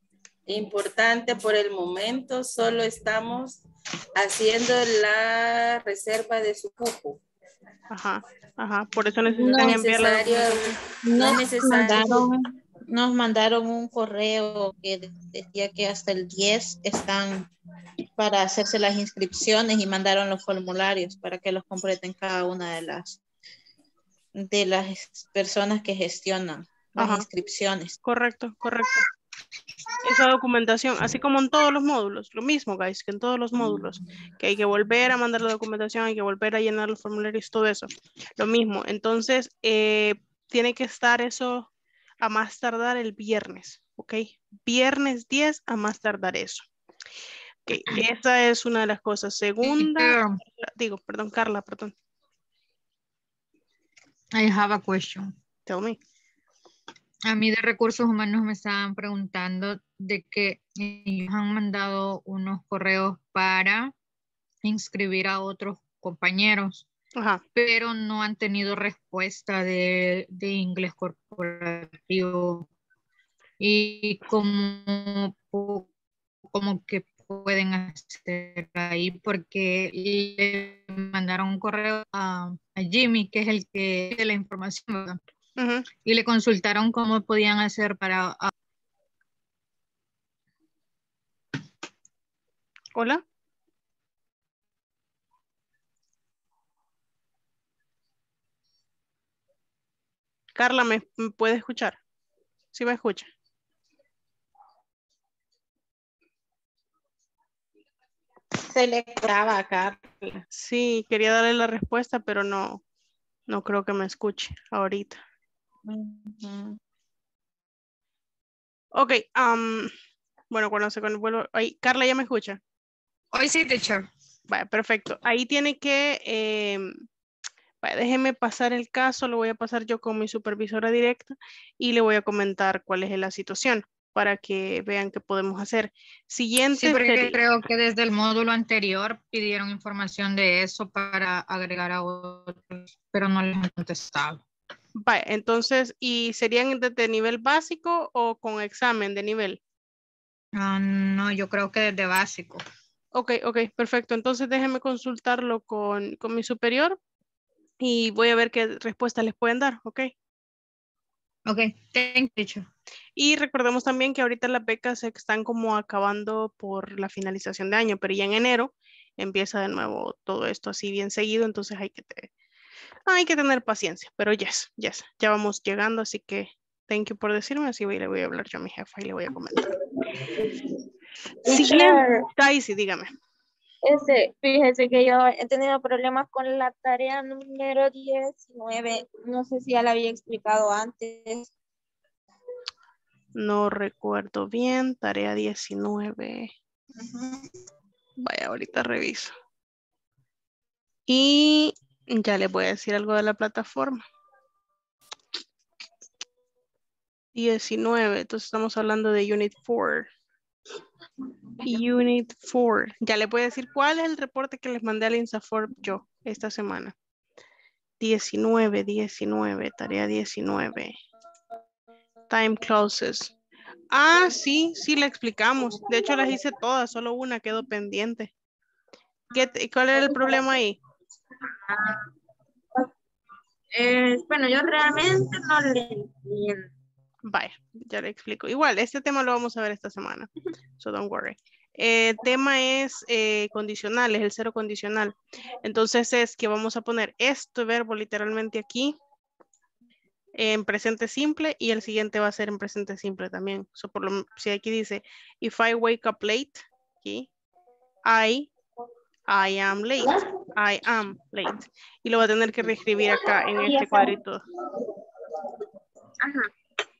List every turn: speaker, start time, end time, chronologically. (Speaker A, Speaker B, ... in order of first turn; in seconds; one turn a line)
Speaker A: 0.5-3.6
Speaker A: 4.2-7.2
Speaker B: 7.9-10.5
Speaker A: 9.4-12.2
Speaker C: 11.8-12.2
Speaker C: 12.9-17.5
Speaker C: 18.2-23.2
Speaker C: 24.3-28.0
Speaker B: 27.0-27.2
Speaker B: 28.0-29.0
Speaker B: 30.0-41.7
Speaker B: 42.2-46.7
Speaker B: 47.7-51.9
Speaker D: 49.6-50.4
Speaker D: 54.3-55.3
Speaker B: 55.6-56.0
Speaker D: 57.2-63.9
Speaker D: 64.6-66.8
Speaker B: 67.2-67.4
Speaker D: 67.5-72.7
Speaker D: 73.6-75.9
Speaker D: 76.5-85.2
Speaker B: 85.6-85.9
Speaker D: 86.0-88.5
Speaker B: 92.9-93.2
Speaker B: 100.5-102.0
Speaker B: 102.7-103.3
Speaker C: 108.7-110.4
Speaker B: 110.5-112.8
Speaker B: 113.5-115.2
Speaker B: 118.9-119.9
Speaker B: 120.5-122.6
Speaker D: 123.3-124.1
Speaker B: 124.5-127.0
Speaker B: 127.8-137.4
Speaker D: 136.7-144.4
Speaker B: 145.0-149.6
Speaker D: 150.5-152.6
Speaker B: 153.1-157.0
Speaker B: 157.8-160.1
Speaker D: 161.4-162.7
Speaker B: 163.2-172.3
Speaker B: 173.1-179.7
Speaker E: 181.4-182.2
Speaker B: 181.4-183.1
Speaker E: 183.8-191.5
Speaker B: 193.4-196.5
Speaker B: 198.2-199.3
Speaker B: 201.1-204.0
Speaker B: 207.3-210.1
Speaker B: 211.6-216.9
Speaker B: 218.0-220.9
Speaker B: 222.3-223.3
Speaker B: 223.9-228.3
Speaker B: 229.3-230.8
Speaker E: 231.7-231.9
Speaker E: 233.7-236.6
Speaker B: 237.2-248.9
Speaker B: 250.4-257.3
Speaker B: 258.1-258.5
Speaker B: 259.3-264.4